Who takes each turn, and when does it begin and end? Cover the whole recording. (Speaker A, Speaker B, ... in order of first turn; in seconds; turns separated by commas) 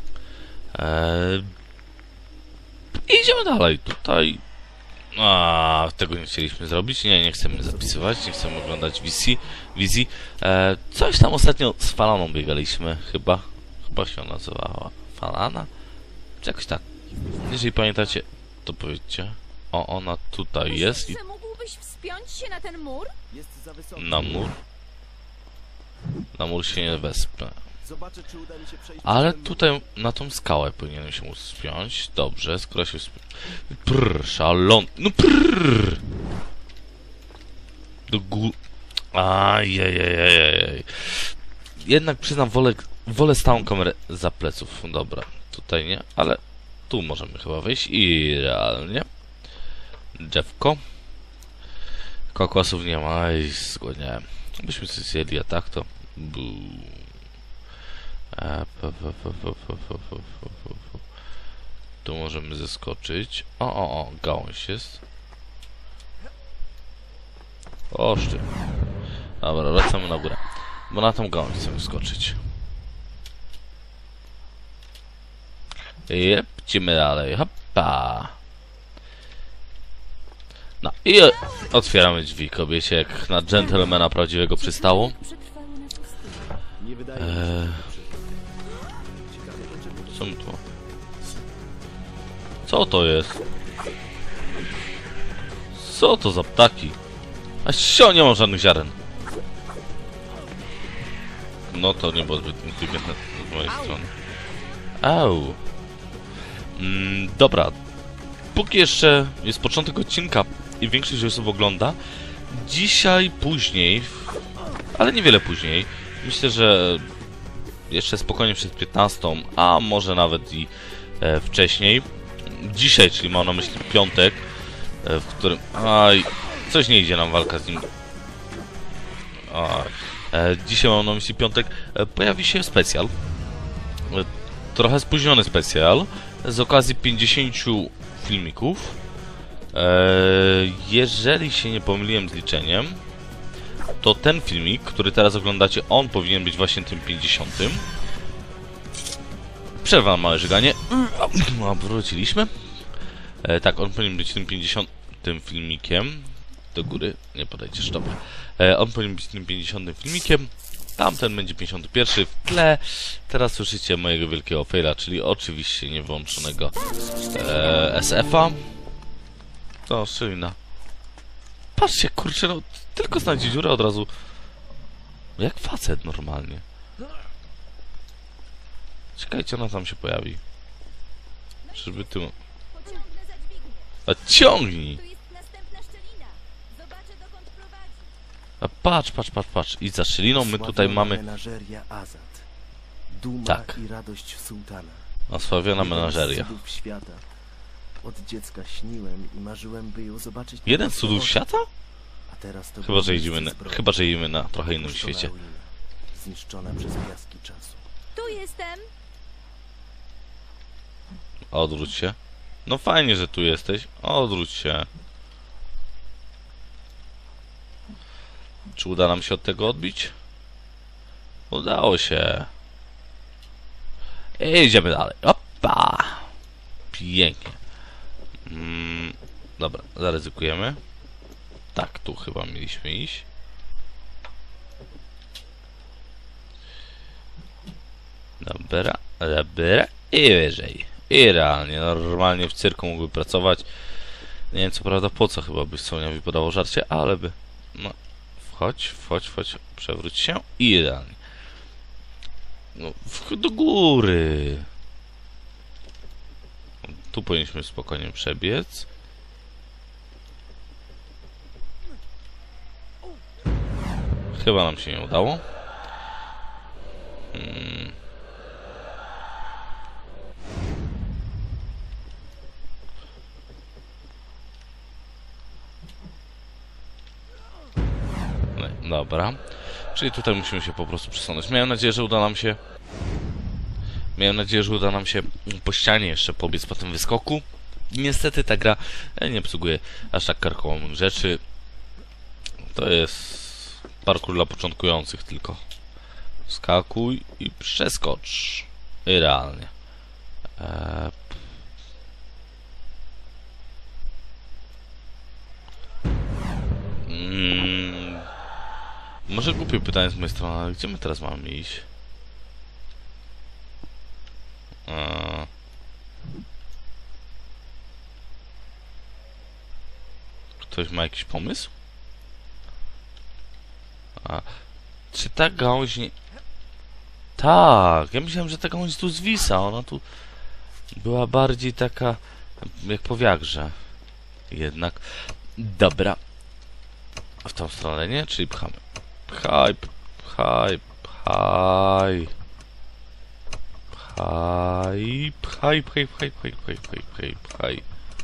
Speaker A: 0.8-1.5, Speaker A: 3.1-4.4, Speaker A: 5.2-15.7, Speaker B: 7.5-8.2, Speaker A: 16.4-16.8, Speaker A: 17.4-21.2, Speaker C: 20.6-23.1, Speaker B: 23.3-24.4, Speaker A: 24.0-24.6, Speaker A: 26.4-27.6, Speaker B: 27.8-29.7, Speaker A: 29.0-36.0, Speaker A: 38.1-38.6, Speaker A: 39.1-49.1, Speaker A: 50.2-50.8, Speaker A: 52.3-57.1, Speaker A: 58.3-61.0, Speaker A: 62.0-65.0, Speaker A: 67.9-68.5, Speaker A: 69.4-72.4, Speaker A: 76.1-78.4, Speaker A: 80.8-85.2, Speaker C: 81.4-81.9, Speaker C: 83.5-84.0, Speaker C: 84.5-86.6, Speaker B: 86.8-88.5, Speaker A: 87.2-87.8, Speaker B: 89.2-90.5, Speaker A: 90.1-90.6, Speaker A: 92.7-93.4, Speaker A: 95.7-97.0, Speaker A: 97.7-99.0, Speaker A: 101.7-104.1, Speaker A: 105.0-105.6, Speaker A: 106.8-107.8, Speaker A: 108.5-112.0, Speaker A: 112.5-114.4, Speaker A: 115.0-117.1, Speaker A: 117.9-124.4, Speaker A: 125.0-127.9, Speaker A: 129.5-133.1, Speaker A: 134.1-139.0, Speaker A: 139.7-143.0, Speaker A: 144.0-147.9, Speaker A: 149.8-152.5, Speaker A: 153.4-166.8, Speaker A: 167.3-168.6, Speaker A: 169.9-170.6, Speaker A: 171.8-174.1, Speaker A: 175.4-176.6, Speaker A: 179.2-180.4, Speaker C: 181.6-184.0, Speaker A: 181.8-182.3, Speaker A: 184.1-185.0, Speaker C: 184.9-188.1, Speaker A: 188.6-191.2, Speaker B: 190.3-192.5, Speaker B: 193.1-195.1, Speaker A: 193.5-193.8, Speaker A: 195.3-196.6, Speaker B: 195.8-197.2, Speaker B: 198.0-201.4, Speaker A: 200.7-201.7, Speaker B: 202.3-204.0, Speaker A: 202.8-205.3, Speaker B: 204.7-207.8, Speaker C: 208.2-208.9, Speaker A: 211.5-214.9, Speaker A: 218.8-220.1, Speaker A: 221.5-222.5, Speaker A: 224.4-226.3, Speaker A: 226.9-227.6, Speaker A: 228.5-230.8, Speaker A: 231.8-233.3, Speaker A: 238.4-243.7, Speaker A: 244.5-251.2, Speaker A: 252.8-254.7, Speaker A: 256.8-258.9, Speaker A: 264.3-265.4, Speaker A: 267.3-268.0, Speaker A: 278.6-279.4, Speaker A: 279.9-282.6, Speaker A: 284.2-291.4, Speaker A: 292.7-295.6, Speaker A: 296.5-299.7, Speaker A: 300.6-301.1, Speaker A: 307.1-308.3, Speaker A: 309.3-311.9, Speaker A: 314.9-315.5, Speaker A: 320.6-321.7, Speaker A: 324.2-324.5, Speaker A: 325.1-326.1, Speaker A: 327.4-330.0, Speaker A: 330.9-333.8, Speaker A: 334.5-336.2, Speaker A: 337.4-342.3, Speaker A: 343.9-347.9